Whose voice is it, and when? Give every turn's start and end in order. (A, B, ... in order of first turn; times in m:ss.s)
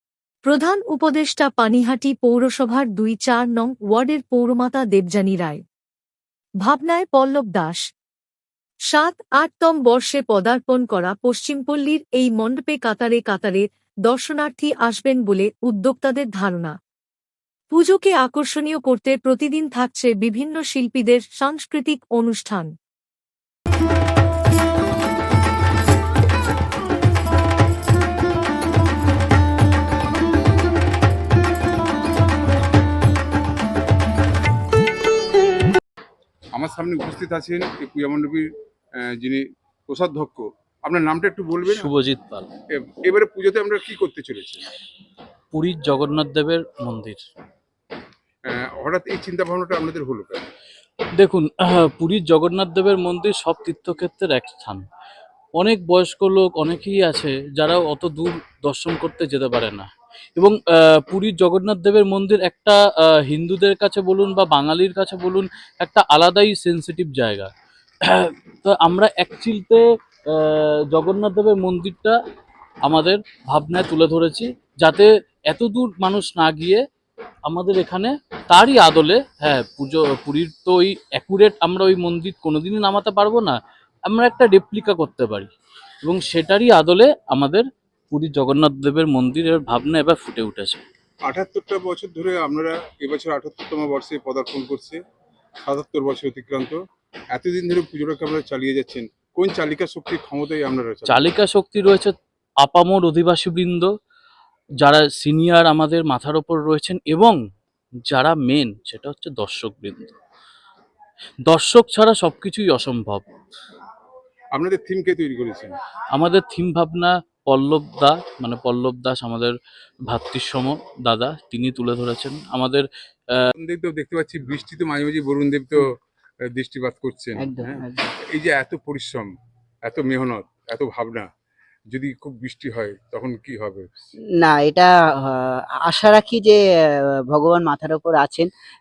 0:00.4-0:05.6 A
0:06.6-0:07.8 A
0:08.9-0:16.8 A
0:17.7-0:22.7 A
0:36.5-0:41.9 B
0:41.6-0:42.5 C
0:42.7-0:44.6 B
0:45.5-0:47.2 C
0:48.4-0:50.5 B
0:51.2-0:54.8 C
0:55.6-1:07.5 C
1:08.0-1:12.2 C
1:12.8-1:16.8 C
1:17.4-1:25.5 C
1:26.0-1:30.8 C
1:31.3-1:35.0 B
1:35.6-1:36.8 B
1:37.3-1:41.3 B
1:41.1-1:43.9 C
1:44.8-1:47.4 C
1:48.1-1:50.1 C
1:51.5-1:53.2 C
1:54.5-1:55.7 B
1:56.1-1:59.5 C
2:00.1-2:02.8 C
2:03.6-2:05.9 B
2:06.5-2:09.3 B
2:07.4-2:08.0 D
2:09.8-2:11.3 B
2:11.9-2:13.9 B
2:14.4-2:16.6 D
2:17.3-2:18.5 D